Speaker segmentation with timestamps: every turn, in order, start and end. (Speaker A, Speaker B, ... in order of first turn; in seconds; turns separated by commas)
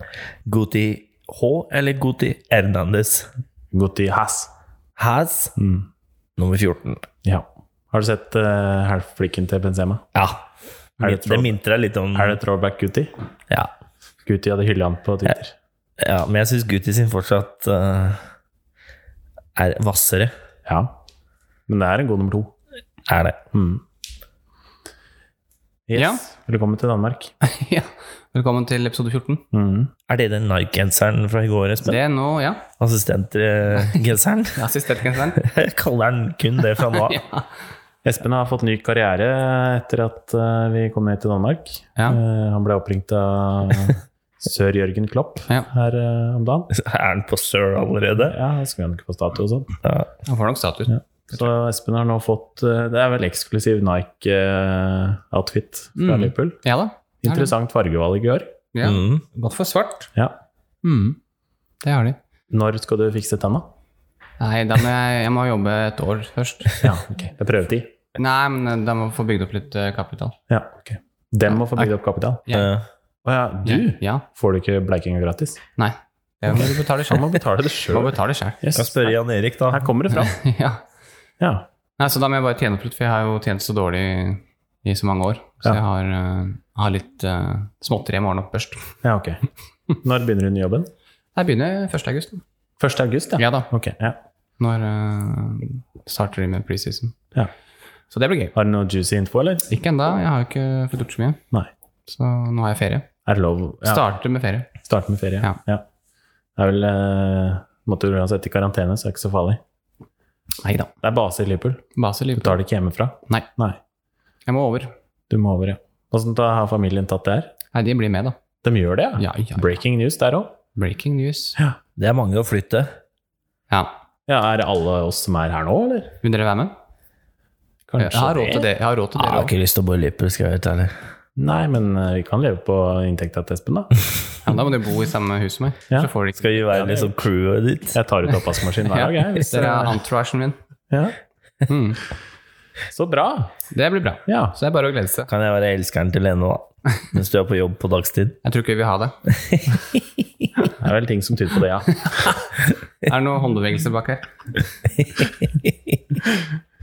Speaker A: 0.5-3.3, Speaker B: 3.7-4.5, Speaker A: 5.0-5.5, Speaker B: 5.5-5.9, Speaker A: 6.4-7.0, Speaker B: 7.2-10.0, Speaker A: 10.1-10.4, Speaker A: 11.0-12.4, Speaker B: 11.0-11.5, Speaker B: 12.1-13.1, Speaker B: 14.2-15.5, Speaker A: 16.0-18.2, Speaker A: 19.6-20.3, Speaker B: 20.6-20.9, Speaker B: 21.7-22.5, Speaker A: 23.1-23.4, Speaker B: 23.5-23.8, Speaker B: 25.9-27.3, Speaker C: 25.9-26.2, Speaker C: 27.4-29.4, Speaker B: 29.5-29.9, Speaker A: 30.1-32.0, Speaker C: 31.8-32.6, Speaker A: 32.8-34.7, Speaker C: 33.7-34.0, Speaker C: 34.5-35.4, Speaker A: 35.3-37.2, Speaker C: 36.9-37.4, Speaker B: 38.0-46.7, Speaker A: 46.7-48.4, Speaker B: 48.3-49.7, Speaker C: 50.2-51.4, Speaker B: 51.3-56.6, Speaker C: 56.0-57.5, Speaker B: 57.2-58.5, Speaker C: 58.7-60.1, Speaker A: 58.8-59.2, Speaker C: 60.9-61.1, Speaker C: 61.8-62.2, Speaker B: 62.5-63.7, Speaker C: 64.4-66.8, Speaker B: 66.8-67.9, Speaker C: 68.2-70.4, Speaker B: 70.5-72.4, Speaker C: 72.5-72.7, Speaker A: 72.5-72.8, Speaker B: 73.2-75.6, Speaker C: 73.6-74.2, Speaker C: 75.8-78.6, Speaker B: 77.1-79.1, Speaker A: 78.7-79.9, Speaker B: 79.7-80.3, Speaker C: 80.1-80.8, Speaker B: 81.4-81.7, Speaker C: 82.0-88.8, Speaker B: 89.0-90.9, Speaker C: 91.3-92.4, Speaker B: 92.8-94.2, Speaker C: 93.4-93.7, Speaker C: 94.6-97.2, Speaker C: 98.1-98.5, Speaker B: 98.5-99.7, Speaker C: 99.7-101.4, Speaker C: 102.1-103.1, Speaker B: 103.2-104.0, Speaker C: 103.8-104.7, Speaker B: 104.8-105.8, Speaker B: 106.6-109.6, Speaker C: 110.6-110.9, Speaker B: 111.0-113.8, Speaker C: 112.0-112.6, Speaker C: 114.5-114.9, Speaker B: 115.3-117.5, Speaker C: 117.7-118.4, Speaker B: 118.6-120.6, Speaker C: 119.2-119.7, Speaker C: 120.7-121.6, Speaker A: 122.0-122.9, Speaker B: 124.3-126.2, Speaker C: 126.2-126.7, Speaker B: 127.9-128.7, Speaker C: 128.0-129.5, Speaker A: 129.1-130.9, Speaker B: 131.4-133.9, Speaker C: 134.4-136.7, Speaker A: 136.3-138.0, Speaker B: 136.7-137.2, Speaker B: 137.9-140.0, Speaker C: 138.8-140.6, Speaker B: 140.9-141.2, Speaker C: 141.7-142.0, Speaker B: 142.9-143.5, Speaker C: 143.7-145.3, Speaker B: 144.3-144.5, Speaker A: 145.3-148.4, Speaker C: 148.4-149.2, Speaker A: 149.4-150.0, Speaker B: 150.8-152.3, Speaker C: 153.0-154.3, Speaker A: 155.0-156.0